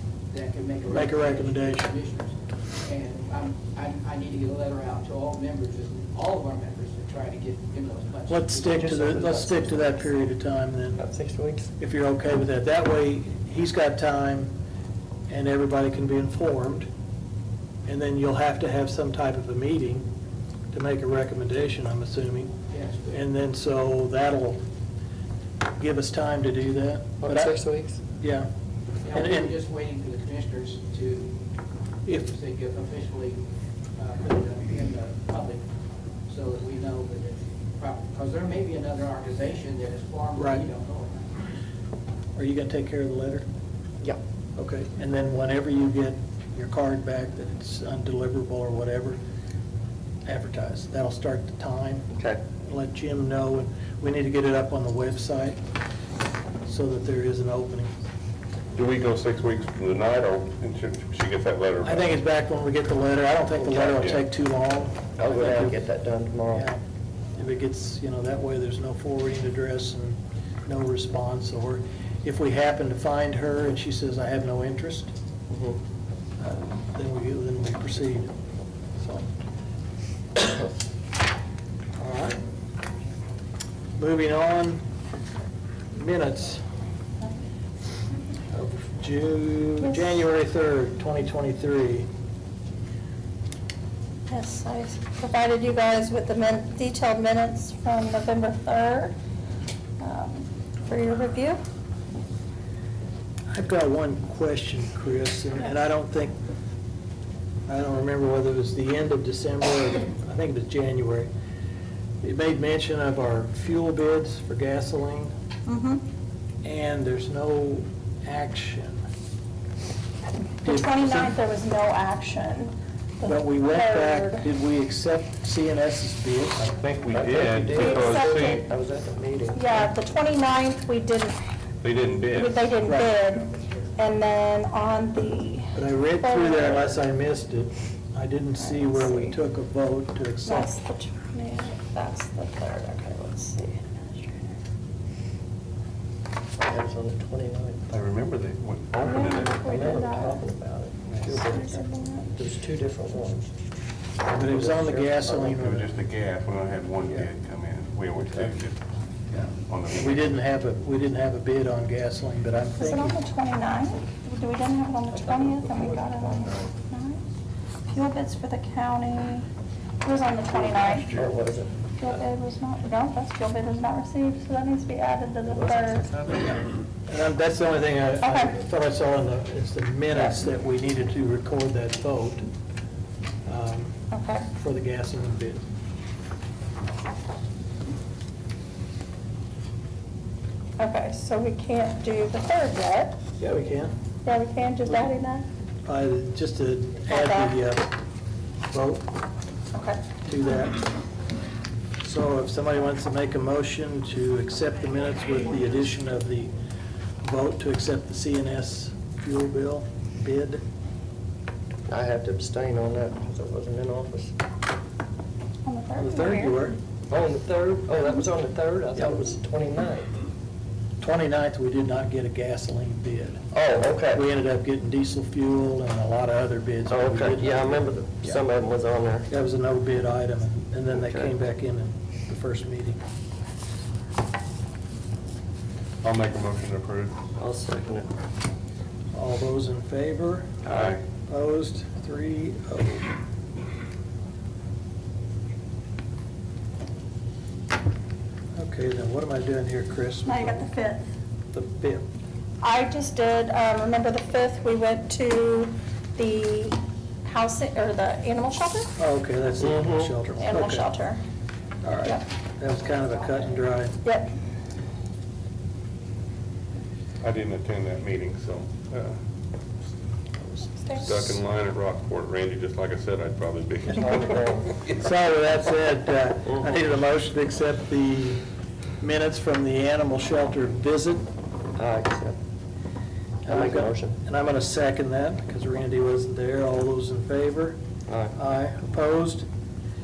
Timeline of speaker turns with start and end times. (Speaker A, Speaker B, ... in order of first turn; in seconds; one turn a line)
Speaker A: 0.3-9.4
Speaker B: 0.9-1.9
Speaker B: 8.3-11.0
Speaker C: 8.7-10.1
Speaker C: 10.9-11.7
Speaker B: 11.8-14.5
Speaker B: 15.3-16.9
Speaker B: 17.8-20.1
Speaker B: 20.7-22.5
Speaker A: 22.7-23.2
Speaker B: 23.1-24.6
Speaker B: 25.8-27.6
Speaker C: 27.2-28.0
Speaker B: 28.1-28.5
Speaker A: 29.0-31.4
Speaker B: 29.1-29.6
Speaker B: 32.0-32.3
Speaker A: 32.1-33.4
Speaker A: 34.0-35.6
Speaker A: 36.3-41.3
Speaker B: 40.4-40.6
Speaker B: 42.4-43.5
Speaker B: 44.6-49.2
Speaker B: 50.2-52.1
Speaker C: 52.1-52.4
Speaker B: 52.6-55.6
Speaker B: 56.6-57.9
Speaker D: 58.7-62.2
Speaker B: 61.8-65.8
Speaker C: 63.6-64.0
Speaker D: 63.9-64.2
Speaker C: 65.2-66.7
Speaker B: 66.5-66.8
Speaker B: 67.4-75.1
Speaker C: 75.5-75.8
Speaker B: 76.4-78.3
Speaker B: 79.0-79.3
Speaker B: 82.0-82.4
Speaker B: 84.0-84.8
Speaker B: 85.9-86.6
Speaker B: 88.5-92.1
Speaker E: 89.8-90.2
Speaker E: 94.3-99.1
Speaker E: 100.0-101.6
Speaker B: 103.5-106.3
Speaker E: 105.6-105.8
Speaker B: 107.7-111.3
Speaker B: 112.2-115.3
Speaker E: 115.7-116.0
Speaker B: 116.6-119.0
Speaker B: 120.6-121.3
Speaker E: 120.6-124.5
Speaker B: 123.2-126.7
Speaker D: 126.6-128.6
Speaker C: 127.1-129.8
Speaker E: 127.8-128.6
Speaker E: 129.5-131.4
Speaker D: 131.8-132.8
Speaker E: 132.3-137.0
Speaker B: 132.8-133.3
Speaker B: 135.7-140.8
Speaker E: 138.6-139.4
Speaker E: 140.4-144.6
Speaker C: 146.6-147.9
Speaker D: 147.9-149.7
Speaker E: 149.0-150.5
Speaker C: 149.6-151.8
Speaker D: 151.1-151.3
Speaker E: 151.3-152.4
Speaker C: 152.3-153.5
Speaker C: 154.2-155.6
Speaker B: 154.3-155.9
Speaker D: 155.6-158.8
Speaker B: 159.3-163.2
Speaker D: 159.7-160.4
Speaker E: 162.8-167.2
Speaker C: 165.1-166.7
Speaker E: 167.9-169.5
Speaker E: 170.0-171.2
Speaker C: 170.5-171.7
Speaker E: 172.0-176.2
Speaker C: 175.4-176.6
Speaker B: 176.4-182.4
Speaker E: 178.2-178.6
Speaker E: 180.1-180.4
Speaker B: 183.4-184.0
Speaker E: 184.1-184.5
Speaker B: 184.5-185.6
Speaker E: 190.8-193.1
Speaker B: 193.4-193.9
Speaker E: 194.2-195.4
Speaker B: 194.8-195.1
Speaker B: 195.8-197.9
Speaker E: 197.0-197.6
Speaker B: 198.7-199.1
Speaker E: 199.7-200.1
Speaker B: 200.2-200.8
Speaker B: 202.0-206.5
Speaker B: 207.2-210.6
Speaker C: 211.9-214.3
Speaker E: 215.6-216.7
Speaker B: 216.0-216.8
Speaker C: 217.1-220.1
Speaker B: 218.9-219.3
Speaker B: 221.0-223.4
Speaker C: 223.5-224.2
Speaker B: 224.1-228.4
Speaker C: 226.8-229.3
Speaker B: 229.3-233.0
Speaker C: 230.9-231.3
Speaker D: 236.0-237.1
Speaker C: 237.4-238.1
Speaker B: 239.1-243.1
Speaker D: 240.6-241.0
Speaker C: 240.7-241.0
Speaker B: 248.5-250.7
Speaker E: 250.2-251.0
Speaker B: 251.5-252.0
Speaker E: 252.6-258.9
Speaker B: 259.0-260.9
Speaker C: 259.6-260.1
Speaker E: 260.3-261.2
Speaker B: 261.8-264.0
Speaker E: 264.0-264.3
Speaker D: 267.2-269.1
Speaker E: 270.4-271.4
Speaker D: 271.0-274.3
Speaker C: 273.9-274.8
Speaker B: 274.9-278.4
Speaker C: 276.5-276.8
Speaker B: 279.0-281.2
Speaker C: 281.8-282.4
Speaker B: 283.4-287.8
Speaker C: 283.5-284.2
Speaker C: 288.1-288.4
Speaker B: 288.4-289.4